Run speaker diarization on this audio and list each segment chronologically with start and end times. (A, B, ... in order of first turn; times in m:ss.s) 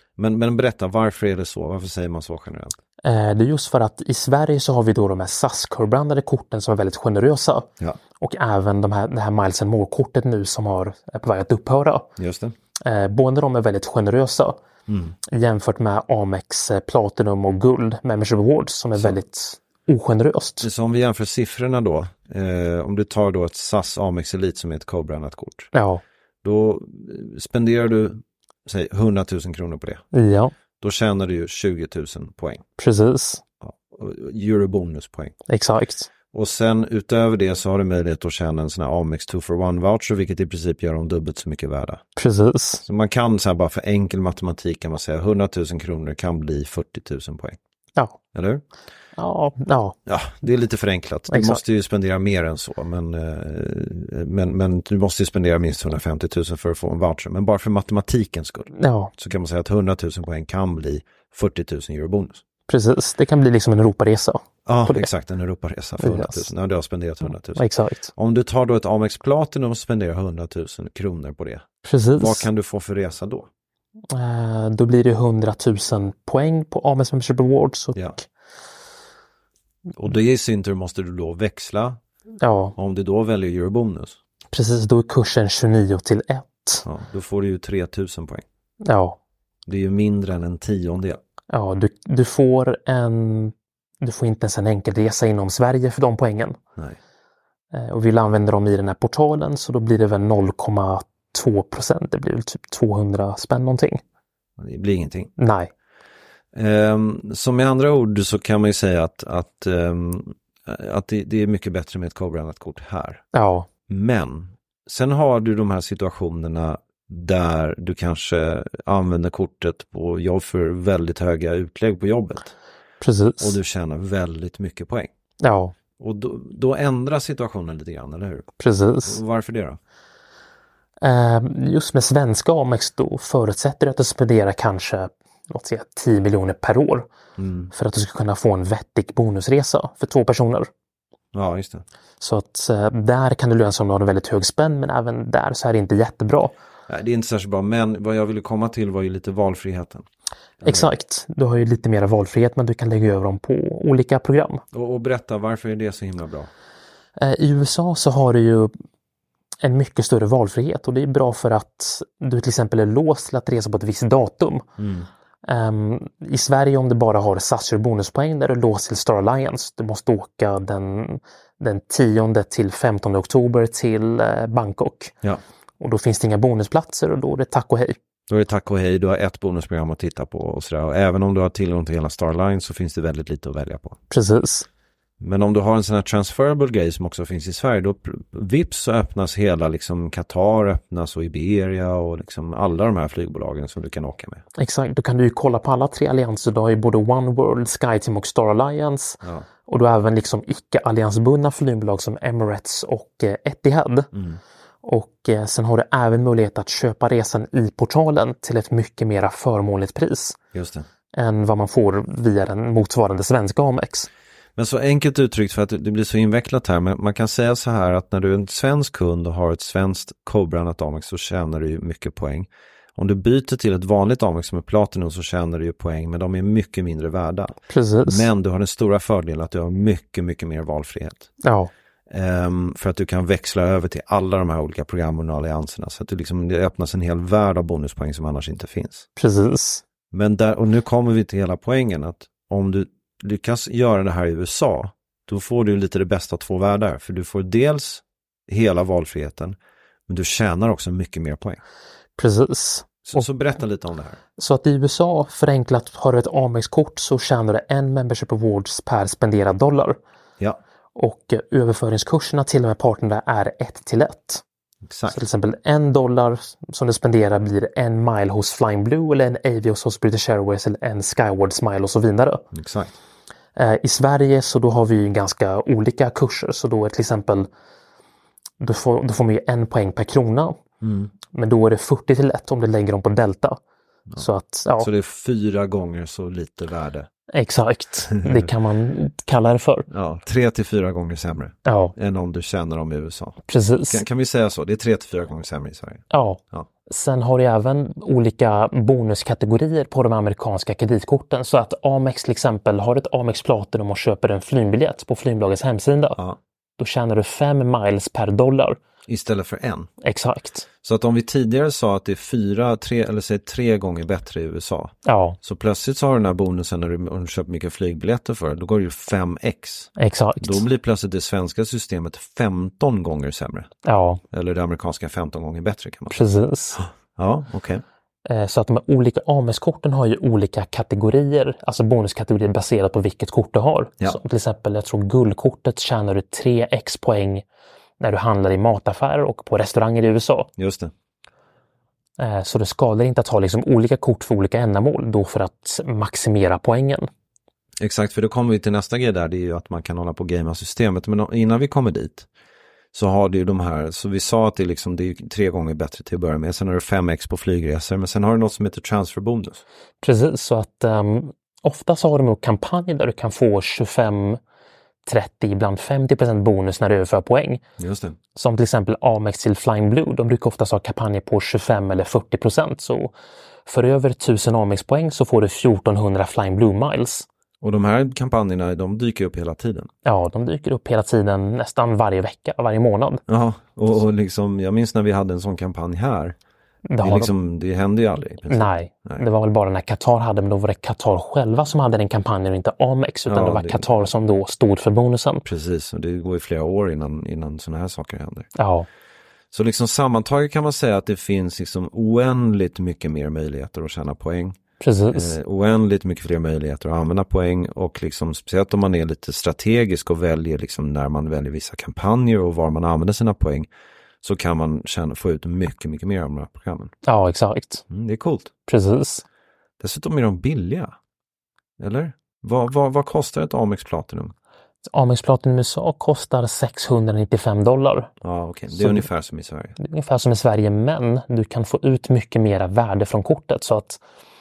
0:00.2-0:02.8 A
0:03.0-0:07.7 B
0:08.2-0:12.1 B
0:12.2-0:12.5 A
0:12.8-0:14.6 B
0:14.9-0:15.2 A
0:15.3-0:20.7 B
0:20.6-0:25.7 A
0:25.7-0:26.0 B
0:26.4-0:30.0 A
0:30.1-0:30.5 B
0:30.8-0:32.6 A
0:32.8-0:33.4 B
0:33.6-0:35.3 A
0:35.5-0:36.1 B
0:36.3-0:42.0 A
0:42.2-0:42.8 B
0:42.8-0:47.6 A
0:48.3-0:48.6 A
0:49.2-0:50.0 B
0:50.0-1:02.4 A
0:51.3-0:51.6 B
0:58.8-0:59.1 B
1:02.7-1:05.1 B
1:04.6-1:11.6 A
1:06.0-1:06.5 B
1:07.5-1:08.1 B
1:11.8-1:12.5 B
1:12.2-1:13.5 A
1:14.1-1:18.2 B
1:20.0-1:22.0 A
1:22.4-1:22.8 B
1:22.8-1:24.2 A
1:24.5-1:26.8 B
1:26.8-1:28.4 A
1:28.8-1:29.2 B
1:29.6-1:31.2 A
1:31.5-1:36.6 B
1:37.7-1:44.0 B
1:44.6-1:45.3 A
1:45.4-1:45.7 B
1:46.5-1:53.2 A
1:53.3-1:53.7 B
1:53.9-2:02.5 A
2:03.0-2:03.6 B
2:03.4-2:05.1 A
2:05.4-2:05.7 B
2:06.0-2:08.5 A
2:08.6-2:09.2 B
2:09.0-2:09.8 A
2:11.0-2:17.1 B
2:17.4-2:17.7 A
2:17.7-2:20.7 B
2:21.3-2:21.8 A
2:22.2-2:26.5 B
2:26.9-2:30.0 A
2:30.6-2:30.9 A
2:30.6-2:34.6 B
2:34.7-2:36.5 A
2:37.2-2:38.7 B
2:39.6-2:44.6 B
2:44.8-2:45.1 A
2:45.4-2:55.1 B
2:55.8-2:58.0 B
2:58.3-3:04.0 A
3:04.1-3:04.6 B
3:05.2-3:14.4 A
3:14.6-3:24.1 B
3:24.1-3:24.4 A
3:24.8-3:30.4 B
3:30.5-3:30.8 A
3:31.1-3:34.1 B
3:34.6-3:51.3 A
3:47.7-3:48.3 B
3:51.4-3:51.7 B
3:52.1-3:59.1 A
3:59.2-3:59.8 B
4:00.1-4:09.6 A
4:10.1-4:11.6 A
4:12.2-4:13.2 B
4:13.0-4:14.2 A
4:14.4-4:20.0 B
4:21.0-4:24.4 B
4:24.8-4:25.2 A
4:25.1-4:32.4 B
4:32.5-4:32.9 A
4:33.6-4:37.5 B
4:38.6-4:40.6 B
4:40.8-4:41.1 A
4:41.3-4:43.6 B
4:44.2-4:44.9 B
4:44.8-4:47.1 A
4:47.3-4:49.9 B
4:48.1-4:48.5 A
4:49.9-4:56.7 A
4:51.6-4:51.9 B
4:53.5-4:54.0 B
4:56.1-5:06.2 B
5:06.8-5:08.8 B
5:09.1-5:09.9 A
5:10.0-5:10.6 B
5:10.8-5:23.7 A
5:15.0-5:15.4 B
5:20.0-5:20.6 B
5:23.8-5:24.2 B
5:24.3-5:26.2 A
5:26.1-5:26.8 B
5:26.8-5:27.8 A
5:28.2-5:37.4 B
5:38.0-5:40.5 B
5:40.6-5:40.9 A
5:42.2-5:47.1 B
5:47.8-5:52.3 A
5:52.9-5:59.6 A
6:00.0-6:04.4 B
6:05.0-6:07.6 B
6:07.8-6:08.2 A
6:08.3-6:13.1 B
6:13.6-6:17.3 B
6:17.6-6:19.9 A
6:20.0-6:23.2 B
6:23.3-6:26.4 A
6:26.9-6:27.3 B
6:27.0-6:29.2 A
6:28.5-6:35.4 B
6:33.2-6:33.9 A
6:35.4-6:38.5 A
6:38.6-6:38.9 B
6:39.5-6:44.6 A
6:44.8-6:45.3 B
6:45.1-6:53.7 A
6:54.2-6:56.9 A
6:57.0-6:57.8 B
6:57.9-6:58.5 A
6:58.7-6:59.2 B
6:59.8-7:00.9 A
7:01.8-7:04.3 A
7:04.9-7:08.1 B
7:08.2-7:09.8 A
7:08.7-7:09.0 B
7:09.8-7:14.0 B